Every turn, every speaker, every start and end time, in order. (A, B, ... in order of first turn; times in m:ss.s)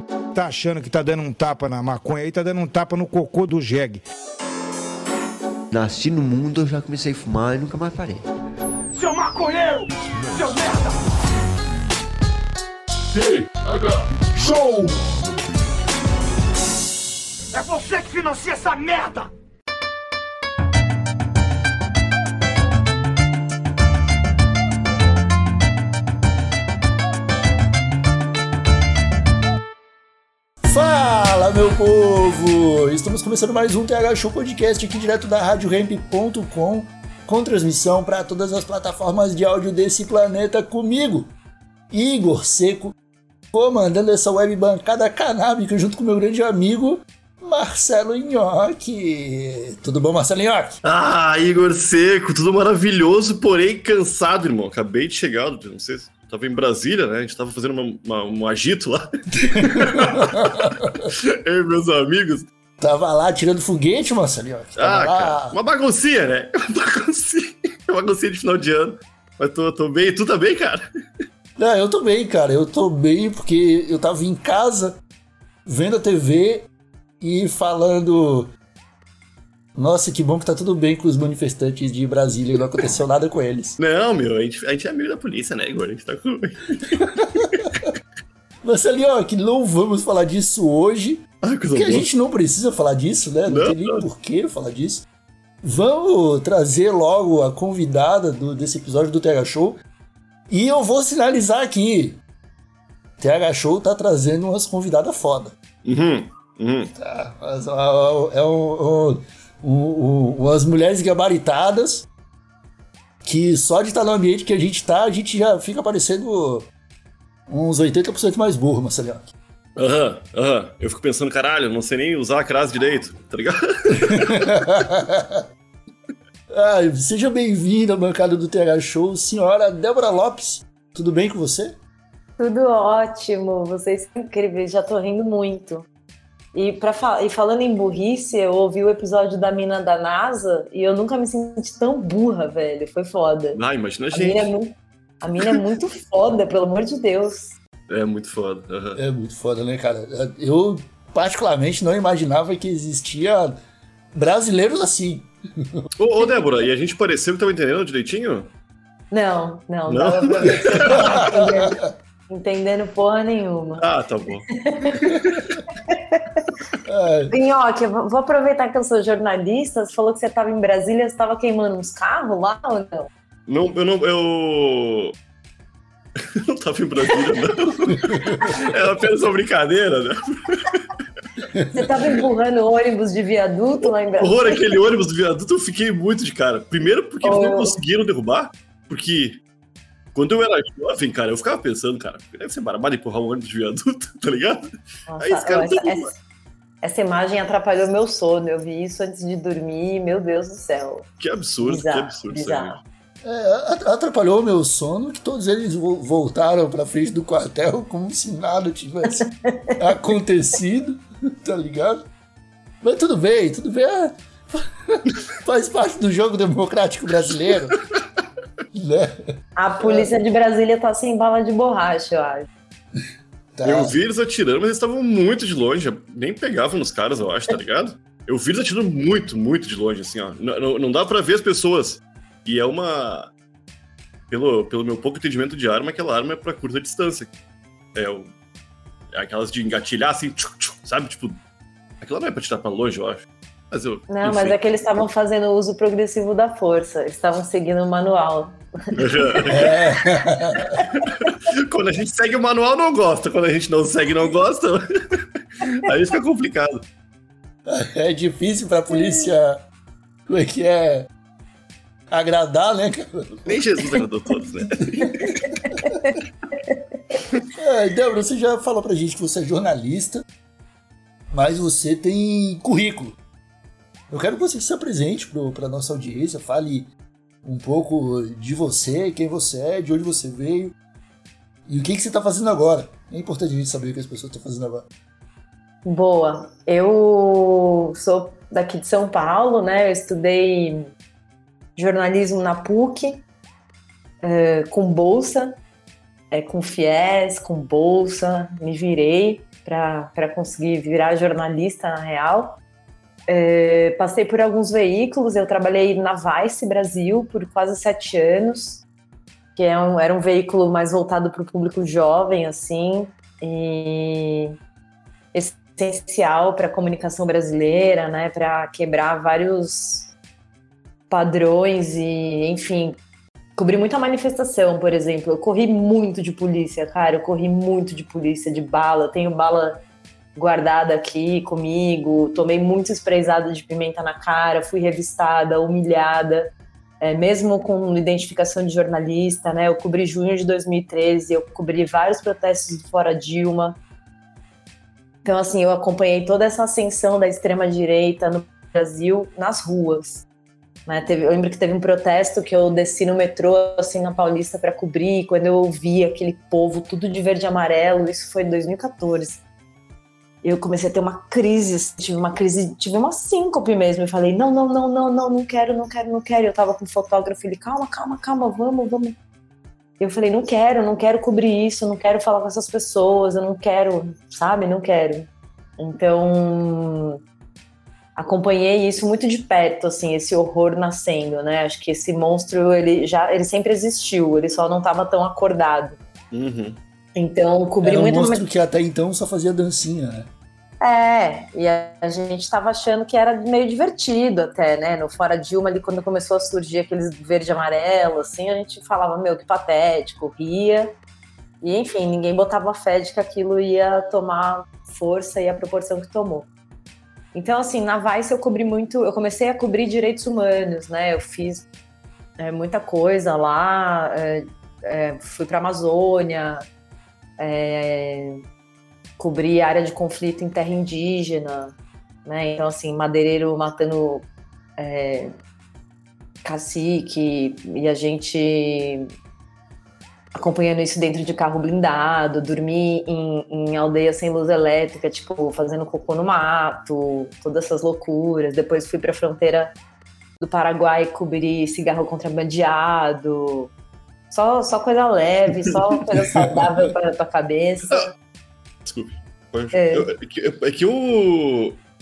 0:00.3-0:04.0 A
0:05.7-0:08.2 B
0:08.9-0:11.0 C
0:13.2-0:15.0 C
0:17.5-0:19.3 C
0:30.6-0:41.3 D
0:41.9-0:42.9 D
0:43.5-0:50.8 D
0:50.8-1:00.6 E
0:59.5-1:01.1 D
1:01.4-1:02.5 E
1:02.8-1:05.6 D
1:04.8-1:10.9 E
1:11.6-1:15.0 D
1:15.7-1:16.7 D
1:17.2-1:18.5 D
1:19.8-1:23.8 D
1:23.8-1:28.0 E
1:26.9-1:27.9 D
1:28.6-1:35.0 D
1:31.4-1:32.1 E
1:33.5-1:34.0 E
1:35.6-1:39.8 D
1:40.5-1:42.2 D
1:43.2-1:45.5 D
1:45.9-1:46.9 E
1:47.0-1:52.1 D
1:53.2-1:56.7 D
1:57.5-1:59.3 D
1:59.8-2:04.7 E
2:04.0-2:05.4 D
2:06.5-2:11.8 D
2:12.4-2:15.9 F
2:16.5-2:23.6 F
2:23.6-2:24.5 E
2:24.1-2:27.6 F
2:27.9-2:29.0 E
2:29.0-2:33.6 D
2:34.1-2:35.9 D
2:36.0-2:38.5 E
2:39.1-2:41.8 F
2:39.9-2:41.2 E
2:40.9-2:41.9 D
2:42.3-2:43.8 F
2:43.8-2:44.5 E
2:44.6-2:45.2 F
2:45.2-2:45.6 E
2:45.9-2:46.5 F
2:46.9-2:47.3 D
2:47.3-2:53.1 F
2:53.5-2:55.1 E
2:56.2-3:01.0 E
2:57.9-2:58.6 D
3:01.5-3:01.9 D
3:01.7-3:04.6 F
3:03.8-3:09.4 E
3:07.2-3:07.8 F
3:10.2-3:14.6 E
3:15.1-3:16.2 F
3:15.2-3:16.1 E
3:16.8-3:21.1 F
3:21.2-3:22.8 E
3:21.6-3:22.8 F
3:23.2-3:32.0 D
3:29.1-3:29.8 F
3:32.8-3:37.8 D
3:38.7-3:39.2 D
3:39.6-3:42.5 F
3:39.8-3:40.1 D
3:43.6-3:43.9 D
3:43.6-3:53.3 E
3:54.3-3:57.3 E
3:58.0-3:58.3 E
3:59.1-4:01.4 E
4:02.0-4:04.6 E
4:04.1-4:08.6 F
4:09.0-4:09.7 E
4:09.2-4:09.8 F
4:09.5-4:10.8 D
4:10.9-4:14.8 E
4:15.7-4:16.8 E
4:17.7-4:19.6 D
4:20.3-4:21.1 D
4:22.1-4:23.6 D
4:23.5-4:25.6 E
4:25.0-4:25.9 D
4:25.6-4:26.8 F
4:27.6-4:30.2 D
4:31.3-4:33.2 D
4:34.1-4:36.9 D
4:37.4-4:40.7 D
4:41.7-4:44.9 D
4:45.8-4:50.8 F
4:51.8-4:53.2 F
4:54.2-4:55.6 F
4:56.3-5:02.6 F
5:03.3-5:08.8 F
5:09.6-5:14.6 F
5:15.3-5:20.1 F
5:21.1-5:23.0 F
5:23.6-5:29.8 F
5:30.4-5:43.8 F
5:45.2-5:50.2 F
5:50.9-5:59.4 F
6:00.4-6:09.2 F
6:10.0-6:17.2 F
6:18.2-6:26.0 F
6:26.3-6:26.8 E
6:27.2-6:28.4 F
6:27.8-6:30.3 D
6:30.8-6:40.9 F
6:41.6-6:46.5 F
6:47.3-6:51.7 F
6:52.4-6:56.6 F
6:57.4-6:58.4 F
6:59.2-7:04.3 F
7:04.8-7:05.3 F
7:06.4-7:09.1 F
7:10.3-7:19.7 F
7:20.4-7:23.7 F
7:24.3-7:28.1 F
7:28.9-7:31.8 E
7:29.7-7:30.1 F